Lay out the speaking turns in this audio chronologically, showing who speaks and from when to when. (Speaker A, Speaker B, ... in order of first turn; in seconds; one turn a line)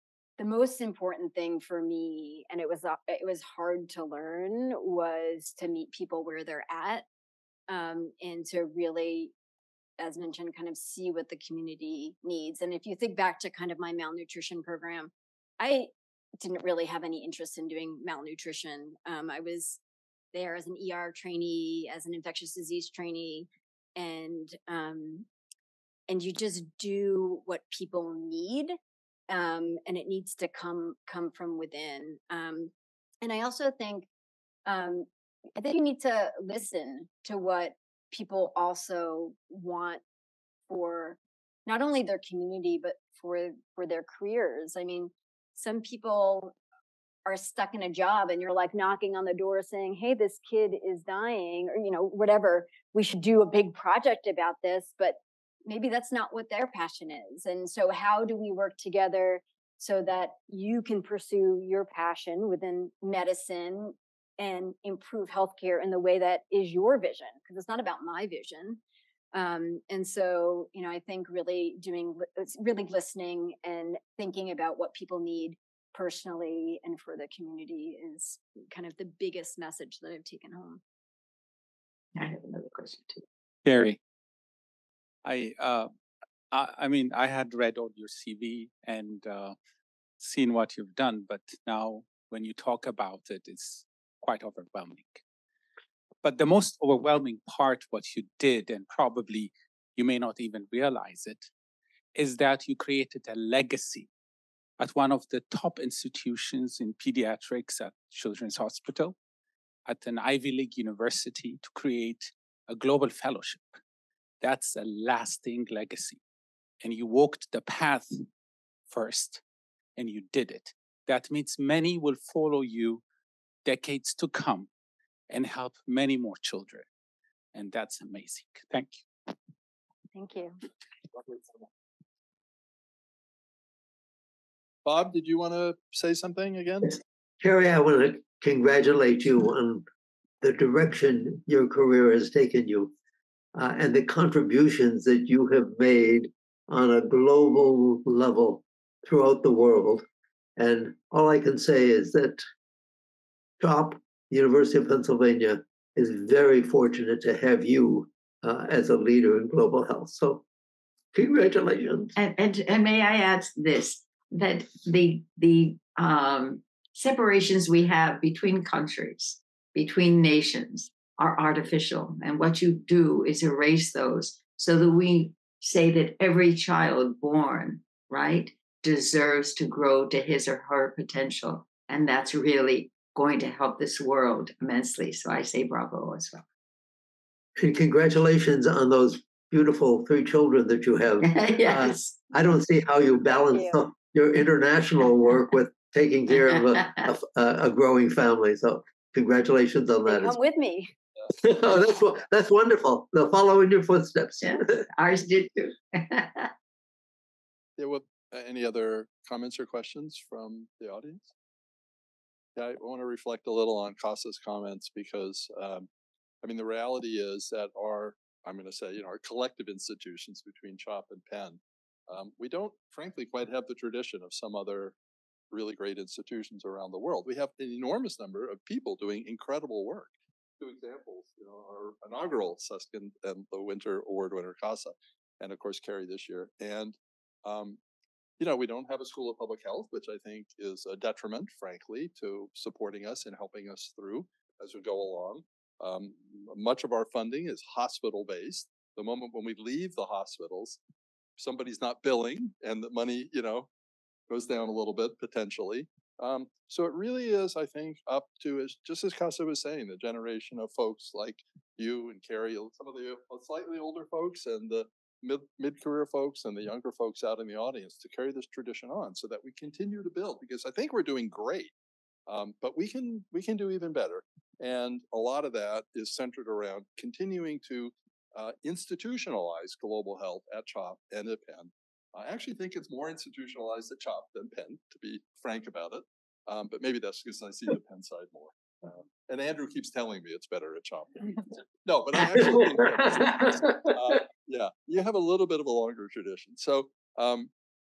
Speaker A: 0.4-7.0
Speaker A: 7.7-9.3
Speaker A: 10.0-19.8
Speaker A: 20.3-25.3
Speaker A: 26.1-28.8
Speaker A: 29.3-34.1
Speaker A: 34.6-40.0
Speaker A: 40.7-46.5
Speaker A: 47.2-68.8
Speaker A: 69.3-80.8
Speaker B: 82.2-83.2
Speaker C: 83.6-84.0
Speaker C: 85.2-85.9
Speaker C: 86.5-89.5
Speaker C: 90.2-95.2
Speaker C: 96.2-101.5
Speaker C: 102.1-104.1
Speaker C: 104.8-109.2
Speaker C: 109.8-113.8
Speaker C: 114.4-116.2
Speaker C: 116.8-118.3
Speaker C: 118.9-119.4
Speaker C: 120.0-123.0
Speaker C: 123.6-124.7
Speaker C: 125.3-126.9
Speaker C: 127.5-129.0
Speaker A: 130.1-130.6
Speaker D: 134.8-137.0
Speaker E: 137.4-139.8
Speaker E: 140.4-142.9
Speaker E: 143.5-150.0
Speaker E: 150.6-152.4
Speaker E: 153.6-160.4
Speaker E: 161.1-162.1
Speaker B: 162.2-186.4
Speaker E: 187.6-200.4
Speaker B: 191.2-192.1
Speaker A: 193.5-193.8
Speaker A: 200.1-200.9
Speaker E: 201.3-204.9
Speaker B: 204.4-206.5
Speaker D: 207.8-211.3
Speaker D: 212.6-215.9
Speaker D: 216.4-224.9
Speaker D: 225.5-237.8
Speaker D: 238.4-250.8
Speaker D: 251.4-253.7
Speaker D: 254.3-271.7
Speaker D: 272.3-297.5